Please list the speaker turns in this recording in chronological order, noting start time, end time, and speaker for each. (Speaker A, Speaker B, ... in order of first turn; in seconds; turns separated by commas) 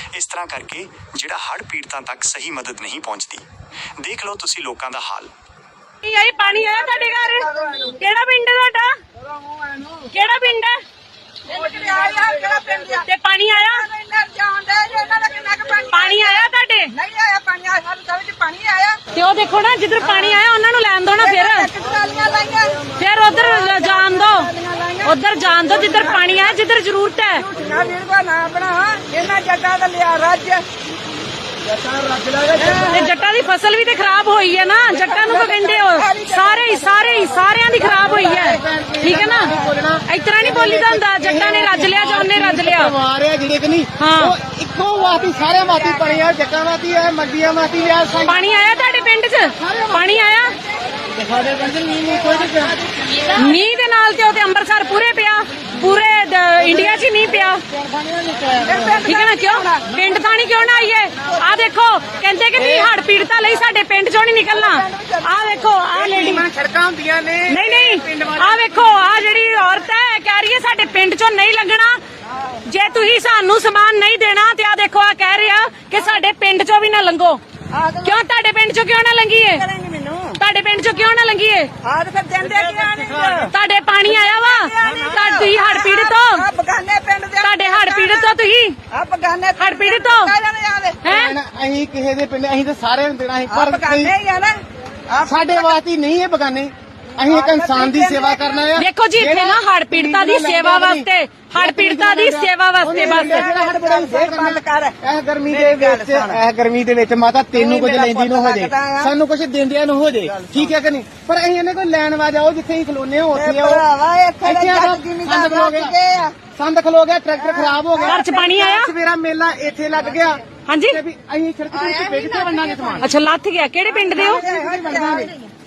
Speaker A: 0.1-3.4, Speaker A: 4.0-5.3, Speaker B: 6.0-8.9, Speaker C: 6.4-8.0, Speaker C: 9.4-10.0, Speaker B: 10.1-10.7, Speaker C: 11.5-19.0, Speaker B: 13.0-13.8, Speaker B: 15.9-16.9, Speaker B: 19.1-21.7, Speaker C: 20.0-20.4, Speaker C: 21.2-26.5, Speaker B: 23.0-24.5, Speaker B: 25.0-27.4, Speaker C: 27.3-30.6, Speaker D: 31.8-32.7, Speaker C: 32.5-33.1, Speaker B: 32.9-39.5, Speaker C: 34.9-37.4, Speaker D: 37.9-48.4, Speaker B: 40.1-42.9, Speaker B: 44.0-44.4, Speaker C: 45.4-46.2, Speaker B: 48.2-50.5, Speaker D: 49.6-50.0, Speaker D: 51.1-52.8, Speaker C: 52.0-52.7, Speaker B: 53.3-57.6, Speaker D: 57.7-59.1, Speaker C: 58.6-60.0, Speaker B: 59.0-66.4, Speaker D: 62.5-62.9, Speaker C: 64.5-65.6, Speaker D: 65.9-68.8, Speaker B: 67.5-72.0, Speaker B: 72.7-77.4, Speaker C: 77.7-78.2, Speaker B: 78.0-79.6, Speaker C: 79.4-80.4, Speaker B: 80.4-81.7, Speaker C: 81.8-83.5, Speaker D: 82.4-83.5, Speaker B: 83.5-86.4, Speaker C: 84.0-88.3, Speaker D: 84.8-85.3, Speaker B: 87.4-88.8, Speaker C: 88.9-91.0, Speaker B: 89.6-90.3, Speaker B: 91.0-91.3, Speaker D: 91.0-94.1, Speaker C: 93.5-95.7, Speaker D: 95.2-113.8, Speaker C: 97.2-98.7, Speaker B: 98.8-103.5, Speaker C: 102.9-106.4, Speaker C: 107.5-109.1, Speaker C: 110.2-110.7, Speaker C: 113.3-116.4, Speaker D: 114.4-115.9, Speaker D: 116.5-123.1, Speaker C: 117.4-118.3, Speaker B: 118.0-118.9, Speaker B: 120.7-121.0, Speaker C: 121.7-123.1, Speaker B: 123.0-124.4, Speaker C: 123.9-125.5, Speaker D: 124.1-125.3